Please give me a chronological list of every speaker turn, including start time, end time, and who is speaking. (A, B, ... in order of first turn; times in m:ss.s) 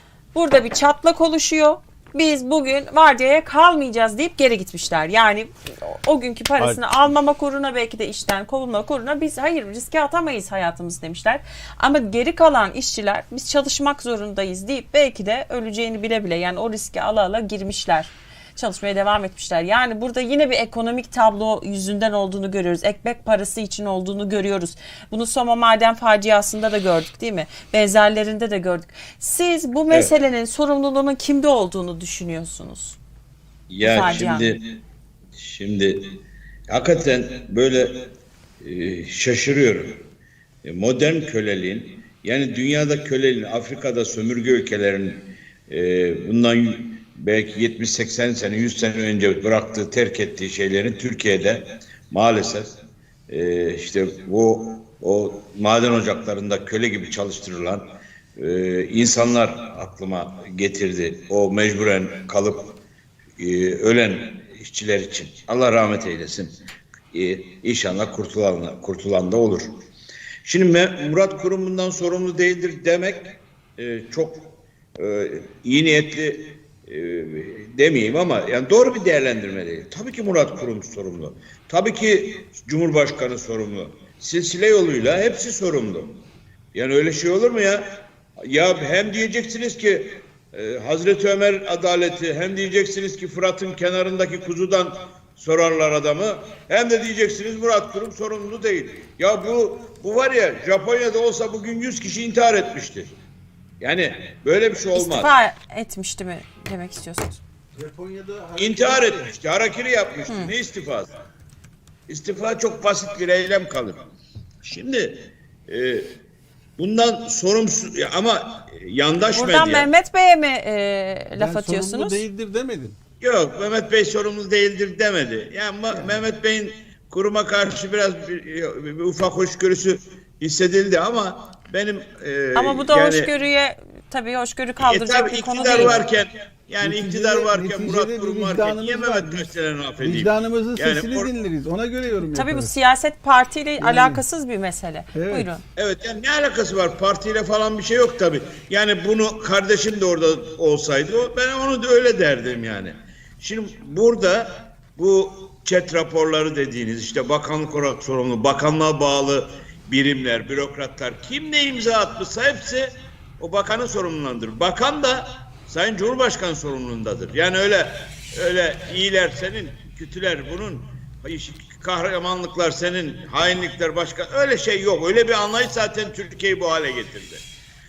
0:00.3-0:33.0 A
0:33.7-0:34.8 B
0:33.8-0:34.5 A
0:35.4-0:36.2 B
0:36.7-0:38.1 B
0:38.6-0:40.0 B
0:40.6-0:52.7 B
0:53.3-1:02.8 B
1:03.4-1:06.5 B
1:07.1-1:09.8 B
1:10.4-1:26.2 B
1:26.7-1:43.1 B
1:43.8-1:45.3 B
1:45.0-1:47.4 A
1:47.8-1:49.3 C
1:48.6-1:51.1 B
1:52.1-1:54.0 B
1:54.6-1:56.1 B
1:56.8-1:59.9 B
1:59.4-2:02.2 A
2:01.4-2:03.0 C
2:03.2-2:13.3 B
2:05.9-2:06.2 C
2:12.6-2:16.0 A
2:14.8-2:21.3 B
2:16.8-2:19.5 C
2:20.0-2:22.7 C
2:22.3-2:25.6 A
2:23.8-2:24.2 C
2:25.1-2:25.5 C
2:25.8-2:57.4 B